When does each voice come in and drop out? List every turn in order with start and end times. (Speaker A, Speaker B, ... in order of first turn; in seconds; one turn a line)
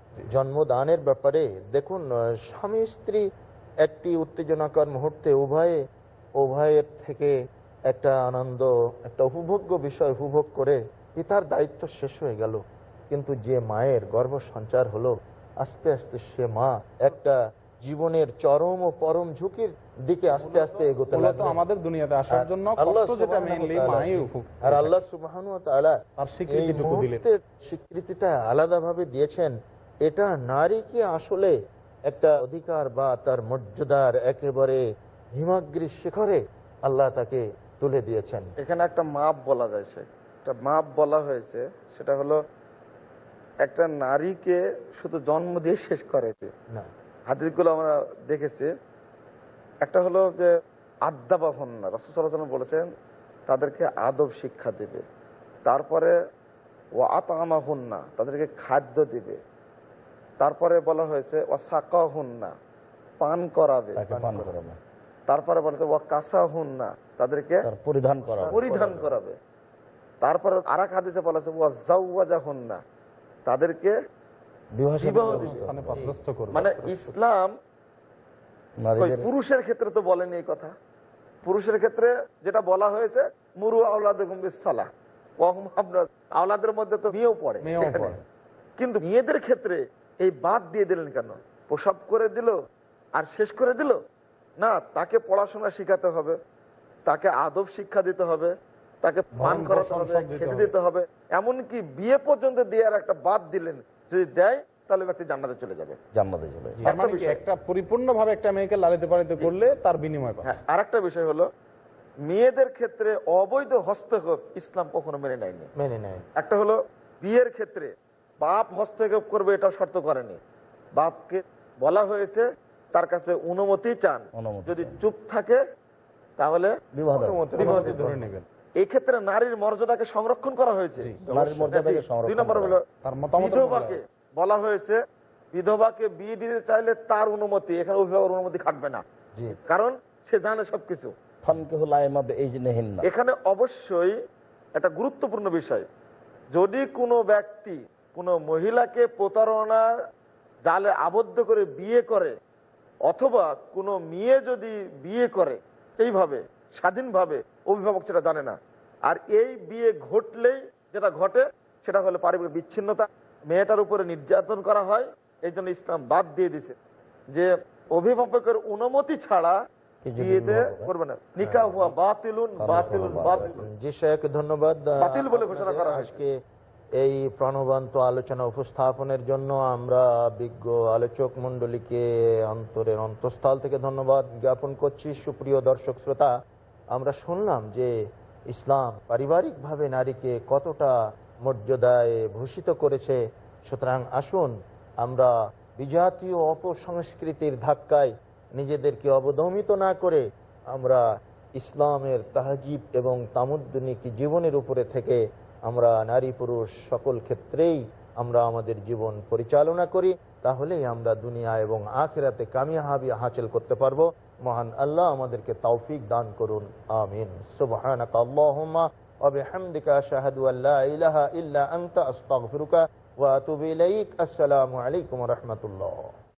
Speaker A: 0.3-3.2
Speaker A: 3.8-5.8
Speaker A: 6.4-7.3
Speaker A: 7.9-12.6
Speaker A: 13.1-21.6
Speaker B: 20.3-25.0
Speaker A: 22.3-29.5
Speaker B: 26.2-27.2
Speaker A: 30.1-31.5
Speaker A: 32.1-34.8
Speaker A: 35.4-38.5
Speaker C: 38.6-42.4
Speaker C: 43.6-46.5
Speaker C: 47.3-48.7
Speaker C: 49.8-50.5
Speaker C: 51.0-52.9
Speaker C: 53.5-55.0
Speaker C: 55.6-56.1
Speaker C: 57.0-59.4
Speaker C: 60.4-62.5
Speaker C: 63.2-64.0
Speaker D: 64.0-64.8
Speaker A: 64.1-64.6
Speaker C: 65.3-67.6
Speaker D: 67.6-68.6
Speaker A: 68.2-69.1
Speaker C: 68.5-69.3
Speaker C: 70.2-72.8
Speaker C: 73.5-74.0
Speaker D: 74.8-76.0
Speaker C: 75.0-75.6
Speaker B: 75.2-77.1
Speaker A: 75.9-76.1
Speaker C: 76.5-77.5
Speaker D: 78.8-79.3
Speaker C: 79.0-80.7
Speaker C: 81.4-84.9
Speaker C: 85.4-88.2
Speaker B: 87.6-88.2
Speaker C: 88.8-92.5
Speaker C: 93.2-94.0
Speaker C: 94.6-96.4
Speaker C: 97.1-106.0
Speaker B: 99.4-100.7
Speaker D: 106.1-106.8
Speaker C: 106.8-107.4
Speaker B: 106.8-110.6
Speaker C: 110.4-111.5
Speaker C: 112.3-115.7
Speaker A: 115.8-116.3
Speaker C: 116.4-120.4
Speaker C: 121.0-125.6
Speaker D: 124.3-125.0
Speaker C: 126.4-126.7
Speaker D: 127.0-128.0
Speaker A: 127.1-128.2
Speaker B: 127.6-128.4
Speaker C: 127.6-127.9
Speaker C: 128.8-131.1
Speaker A: 131.2-131.8
Speaker D: 131.3-132.8
Speaker C: 131.7-132.8
Speaker B: 133.0-134.0
Speaker C: 133.4-135.0
Speaker C: 135.5-139.0
Speaker C: 139.6-141.1
Speaker D: 141.4-143.1
Speaker C: 143.1-144.2
Speaker C: 144.8-145.8
Speaker C: 146.5-149.8
Speaker C: 150.6-152.3
Speaker C: 153.1-166.8
Speaker C: 167.3-169.6
Speaker D: 170.0-170.9
Speaker C: 170.2-173.6
Speaker A: 171.4-171.9
Speaker D: 172.6-173.4
Speaker A: 172.9-176.3
Speaker C: 175.0-176.1
Speaker A: 177.0-186.3
Speaker A: 186.9-187.9
Speaker A: 188.5-190.9
Speaker A: 191.4-201.0
Speaker A: 201.6-226.2